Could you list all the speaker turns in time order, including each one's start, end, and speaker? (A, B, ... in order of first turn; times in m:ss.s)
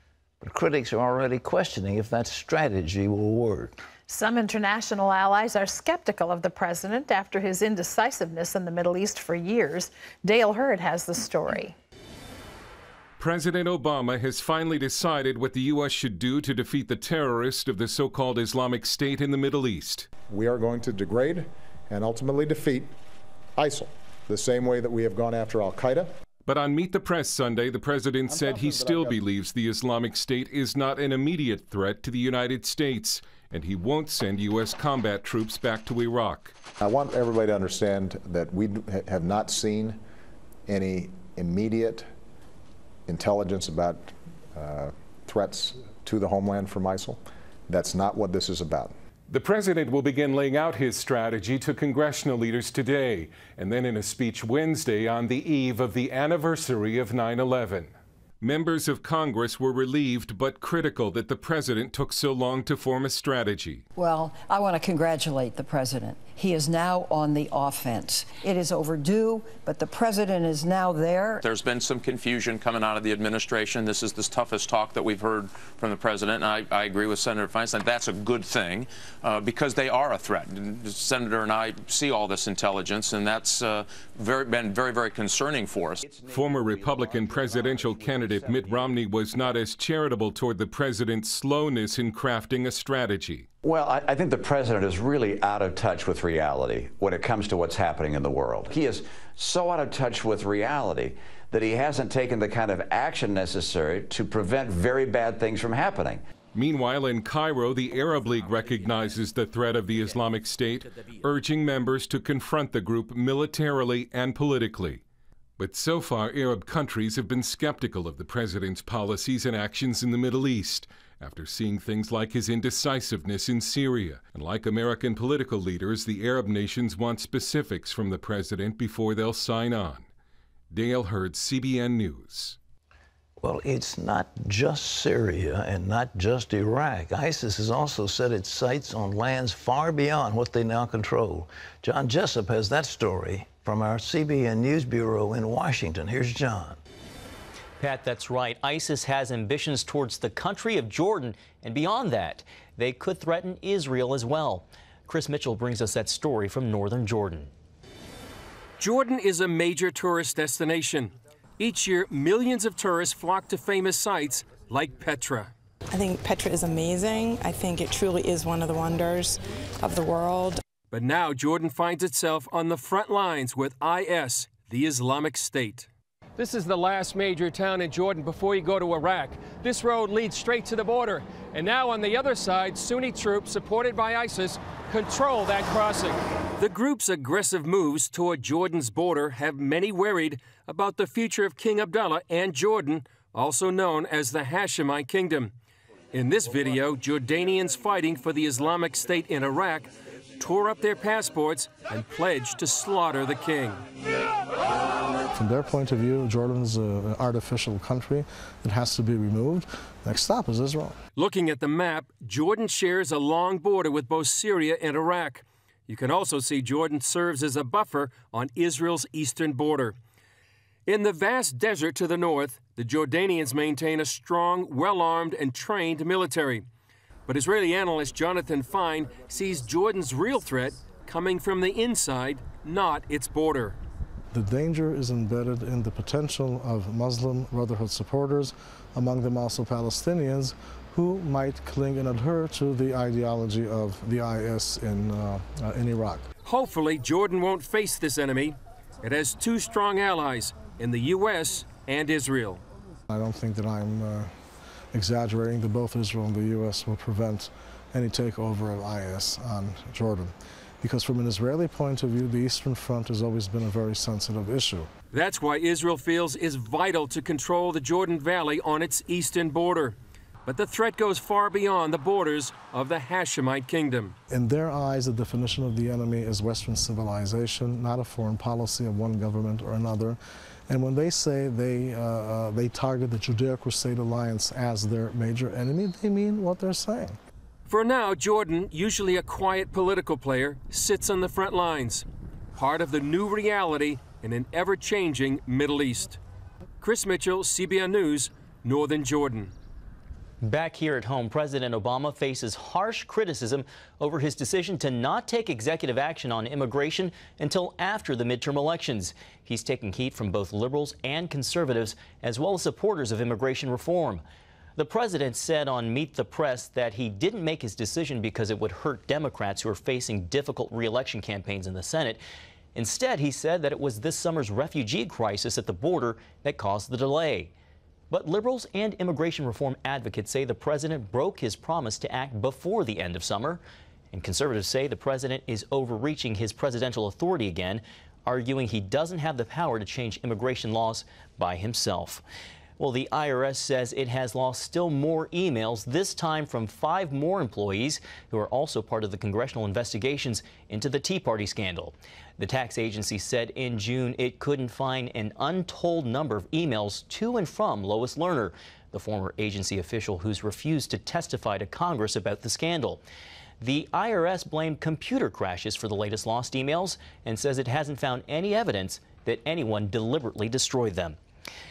0:00.4-0:03.7 A
0:04.1-0:11.7 B
0:13.2-0:20.1 C
0:20.3-0:22.9 D
0:23.6-0:26.1 D
0:26.4-0:36.5 C
0:28.3-0:29.2 D
0:36.8-0:40.0 D
0:40.7-0:42.0 D
0:43.1-0:48.9 D
0:49.3-0:57.9 C
0:58.4-1:03.8 C
1:04.0-1:11.5 E
1:11.6-1:26.0 F
1:26.0-1:28.3 G
1:26.2-1:33.4 C
1:33.6-1:46.2 G
1:46.5-1:55.0 C
1:55.6-2:10.0 C
2:10.7-2:12.6 C
2:13.4-2:26.8 A
2:27.8-2:37.5 H
2:38.8-2:45.5 I
2:45.9-2:50.6 J
2:50.9-3:15.5 I
3:16.1-3:23.8 I
3:25.3-3:31.0 K
3:31.2-3:40.0 I
3:40.9-3:46.7 I
3:47.3-3:53.8 I
3:54.3-4:06.3 K
4:06.4-4:12.6 I
4:13.1-4:14.3 K
4:14.9-4:24.9 K
4:25.1-4:34.1 I
4:34.3-4:47.2 K
4:47.7-4:56.2 I
4:56.8-4:59.5 I
5:00.4-5:14.2 H
5:14.8-5:22.2 H
5:22.7-5:27.5 H
5:28.1-5:42.2 H
5:42.8-6:03.0 H
6:03.6-6:11.2 H